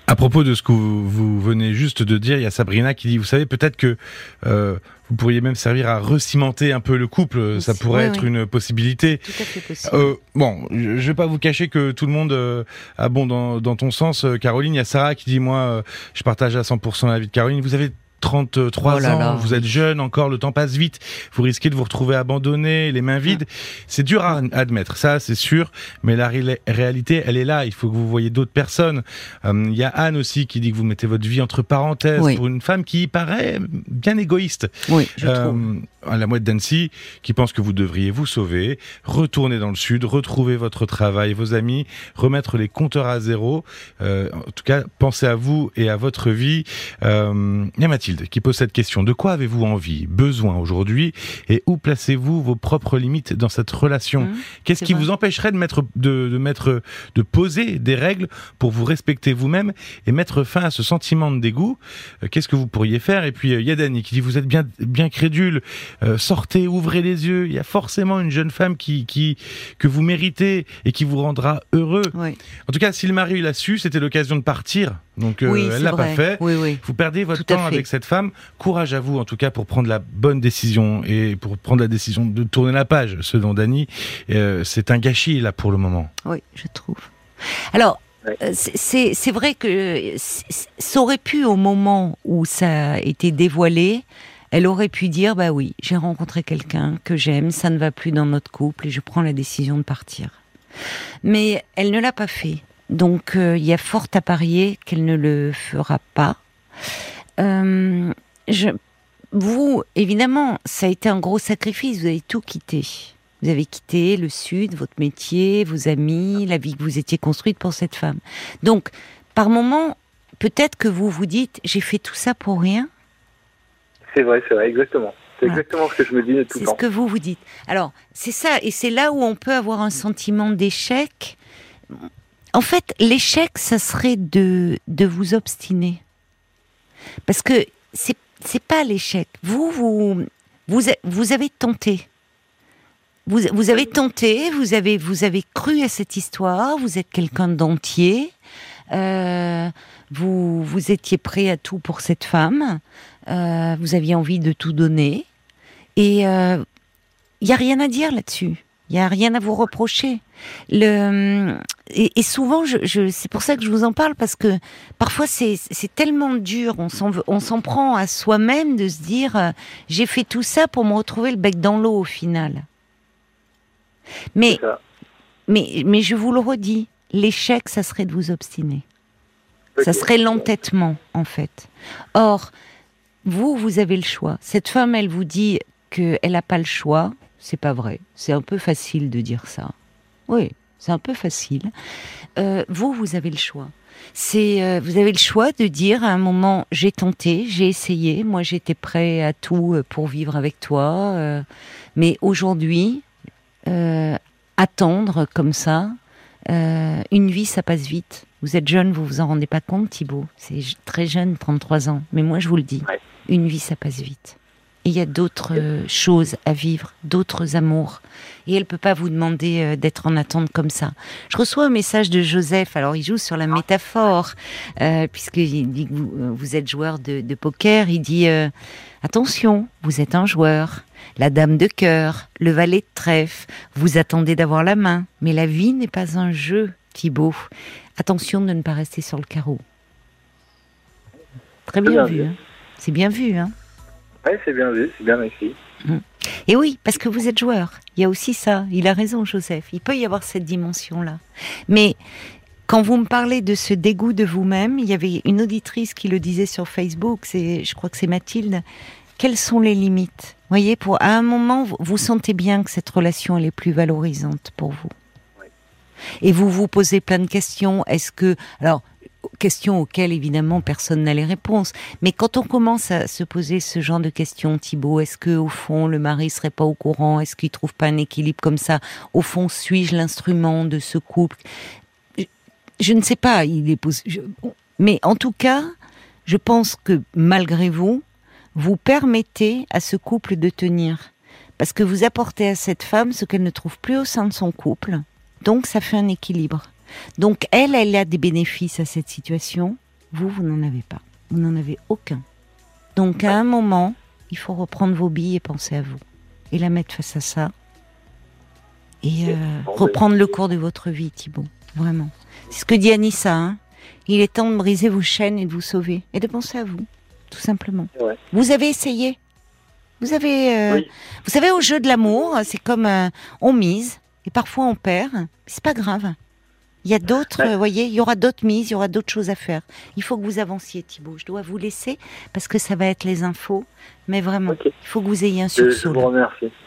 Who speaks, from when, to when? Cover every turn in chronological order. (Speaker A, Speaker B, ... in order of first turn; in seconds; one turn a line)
Speaker A: 0.1-9.3
Speaker B: 7.5-8.3
Speaker B: 9.2-10.2
Speaker A: 9.8-72.2
Speaker B: 18.8-19.6
Speaker B: 34.9-35.7
Speaker B: 54.2-55.1
Speaker B: 72.1-72.4
Speaker A: 72.7-86.1
Speaker B: 75.5-76.8
Speaker B: 77.3-77.9
Speaker B: 86.2-87.1
Speaker B: 87.7-100.4
Speaker B: 101.2-106.4
Speaker B: 107.4-108.8
Speaker B: 109.3-122.9
Speaker C: 124.1-126.8
Speaker B: 126.5-131.4
Speaker B: 131.9-136.0
Speaker B: 137.3-142.1
Speaker B: 143.3-148.3
Speaker B: 148.9-155.3
Speaker B: 156.0-156.7
Speaker B: 157.4-172.7
Speaker B: 174.4-174.6
Speaker C: 174.5-174.8
Speaker B: 175.5-178.8
Speaker C: 179.8-180.5
Speaker B: 179.8-182.5
Speaker B: 183.2-189.7
Speaker B: 190.3-191.7
Speaker B: 192.4-201.4
Speaker B: 202.0-203.1
Speaker B: 203.7-206.0
Speaker B: 206.5-228.5
Speaker B: 229.0-239.6
Speaker B: 241.7-243.5
Speaker C: 241.8-242.3
Speaker C: 244.2-245.6
Speaker B: 245.8-252.0
Speaker B: 252.7-258.6
Speaker B: 259.2-264.9
Speaker B: 266.2-281.4
Speaker B: 282.8-285.7
Speaker B: 286.3-288.0
Speaker B: 288.6-302.2
Speaker B: 303.0-307.5
Speaker B: 309.0-319.2
Speaker C: 309.3-310.0
Speaker B: 320.0-326.2
Speaker B: 326.9-336.1
Speaker C: 335.6-336.5